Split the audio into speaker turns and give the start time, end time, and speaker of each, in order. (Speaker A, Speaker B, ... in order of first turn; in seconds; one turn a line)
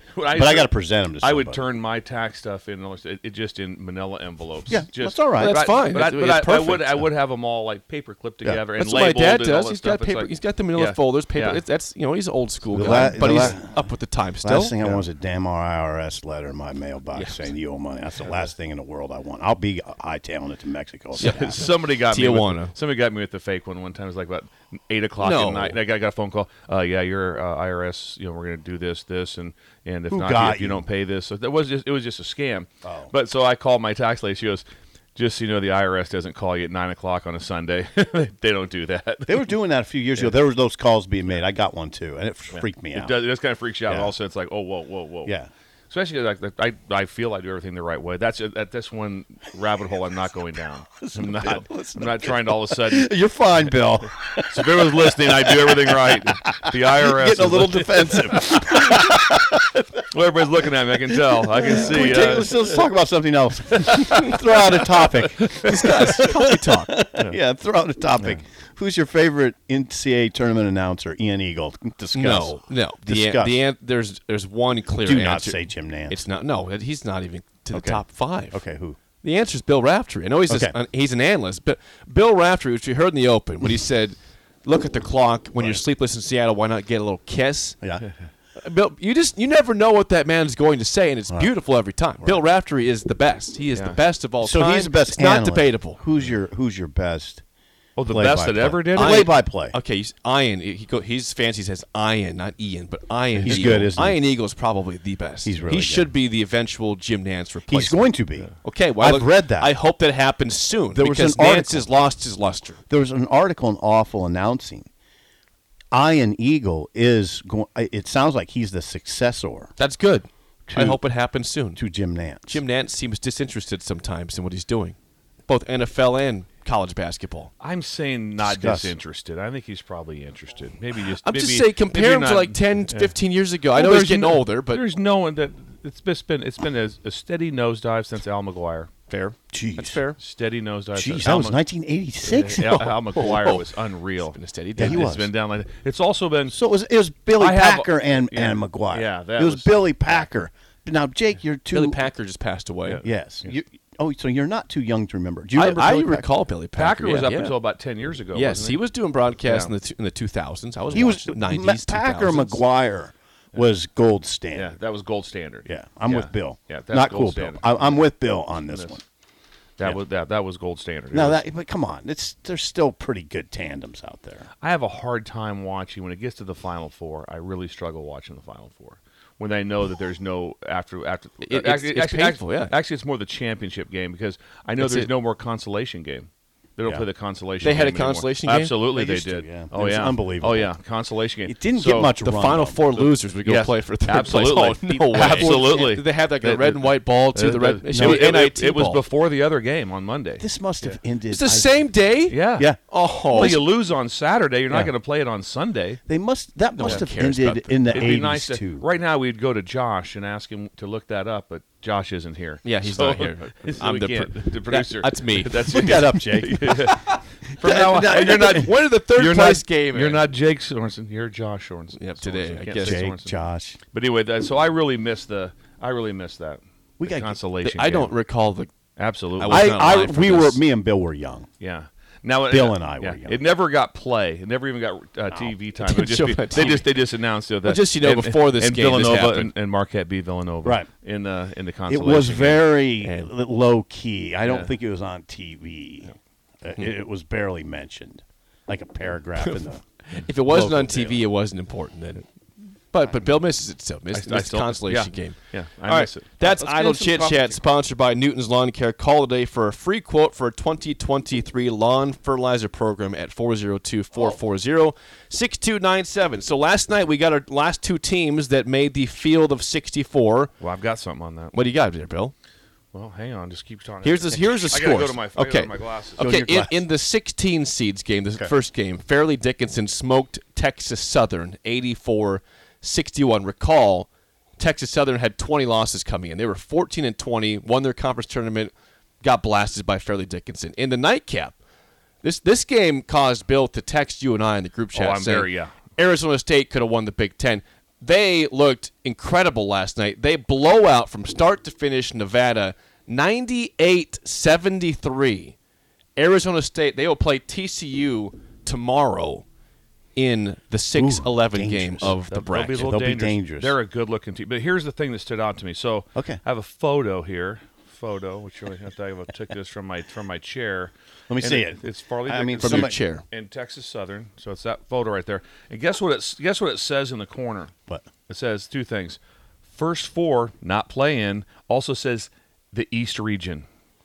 Speaker A: 0.1-11.6
Speaker B: 0.3-1.6
Speaker B: 4.7-5.8
Speaker C: 5.4-7.0
Speaker C: 8.7-15.0
Speaker B: 12.7-13.8
Speaker B: 14.4-21.6
Speaker A: 21.2-34.6
Speaker C: 21.2-22.7
Speaker C: 25.2-25.8
Speaker B: 30.1-30.8
Speaker B: 32.8-33.1
Speaker A: 35.1-39.5
Speaker B: 39.3-43.2
Speaker A: 42.5-45.3
Speaker B: 45.2-45.5
Speaker A: 45.9-53.1
Speaker B: 51.0-60.0
Speaker A: 54.4-62.8
Speaker B: 61.1-73.6
Speaker A: 63.7-66.3
Speaker C: 65.6-67.0
Speaker C: 72.1-78.6
Speaker B: 75.0-76.2
Speaker B: 77.7-79.0
Speaker C: 79.2-87.8
Speaker B: 80.5-80.8
Speaker B: 85.6-85.8
Speaker C: 88.6-96.0
Speaker B: 94.4-97.4
Speaker A: 98.0-99.3
Speaker B: 98.1-99.8
Speaker C: 98.9-108.1
Speaker B: 103.4-104.2
Speaker B: 105.4-106.1
Speaker B: 107.7-109.7
Speaker C: 108.6-112.8
Speaker B: 110.9-111.9
Speaker B: 112.9-114.9
Speaker B: 115.9-119.7
Speaker C: 119.8-121.8
Speaker B: 120.7-121.0
Speaker B: 121.8-122.6
Speaker C: 122.5-125.0
Speaker C: 125.5-127.5
Speaker A: 127.6-133.1
Speaker B: 128.4-128.9
Speaker C: 131.2-134.8
Speaker A: 133.7-138.9
Speaker C: 139.1-140.2
Speaker B: 139.5-140.0
Speaker A: 140.2-141.6
Speaker B: 140.9-142.9
Speaker A: 142.2-146.6
Speaker C: 142.7-143.6
Speaker C: 144.3-145.1
Speaker B: 144.8-145.3
Speaker B: 146.5-152.0
Speaker A: 147.3-150.2
Speaker C: 151.7-153.0
Speaker A: 152.9-153.5
Speaker B: 153.0-156.3
Speaker C: 155.5-157.5
Speaker A: 156.8-158.8
Speaker C: 158.3-162.6
Speaker A: 159.4-159.7
Speaker B: 160.9-164.7
Speaker A: 164.5-168.0
Speaker B: 165.7-169.0
Speaker A: 168.7-168.9
Speaker A: 169.8-171.4
Speaker B: 171.1-174.5
Speaker A: 174.6-192.1
Speaker C: 181.4-182.7
Speaker C: 184.8-185.1
Speaker C: 187.6-188.7
Speaker B: 188.9-190.7
Speaker B: 191.4-192.8
Speaker C: 192.2-199.0
Speaker A: 193.4-201.0
Speaker B: 195.1-195.9
Speaker B: 197.9-198.4
Speaker B: 200.4-201.8
Speaker C: 201.3-203.6
Speaker A: 202.3-202.7
Speaker B: 203.3-203.6
Speaker A: 203.3-206.0
Speaker B: 206.1-208.8
Speaker C: 206.8-208.1
Speaker A: 207.9-223.4
Speaker C: 212.6-216.0
Speaker B: 215.7-216.9
Speaker C: 216.8-220.2
Speaker B: 217.6-218.7
Speaker C: 221.9-223.0
Speaker B: 222.8-223.8
Speaker A: 223.9-228.1
Speaker B: 227.0-227.4
Speaker C: 227.6-228.7
Speaker A: 229.0-229.7
Speaker C: 229.4-230.6
Speaker B: 229.5-231.5
Speaker A: 231.6-242.7
Speaker B: 232.5-233.4
Speaker C: 235.8-236.9
Speaker C: 237.6-239.5
Speaker B: 241.9-249.8
Speaker C: 243.0-243.3
Speaker A: 244.4-244.7
Speaker C: 249.4-252.2
Speaker B: 250.5-251.1
Speaker A: 250.6-251.1
Speaker C: 252.9-270.5
Speaker A: 254.1-256.3
Speaker B: 256.4-257.6
Speaker A: 270.6-271.5
Speaker C: 271.5-272.3
Speaker A: 272.9-276.2
Speaker C: 274.0-291.5
Speaker B: 276.2-276.8
Speaker C: 292.2-305.5
Speaker A: 294.9-295.7
Speaker C: 306.2-309.4
Speaker C: 310.1-312.9
Speaker B: 310.9-312.1
Speaker A: 312.3-327.7
Speaker B: 312.7-313.7
Speaker B: 321.3-323.0
Speaker C: 322.6-323.2
Speaker A: 328.2-333.6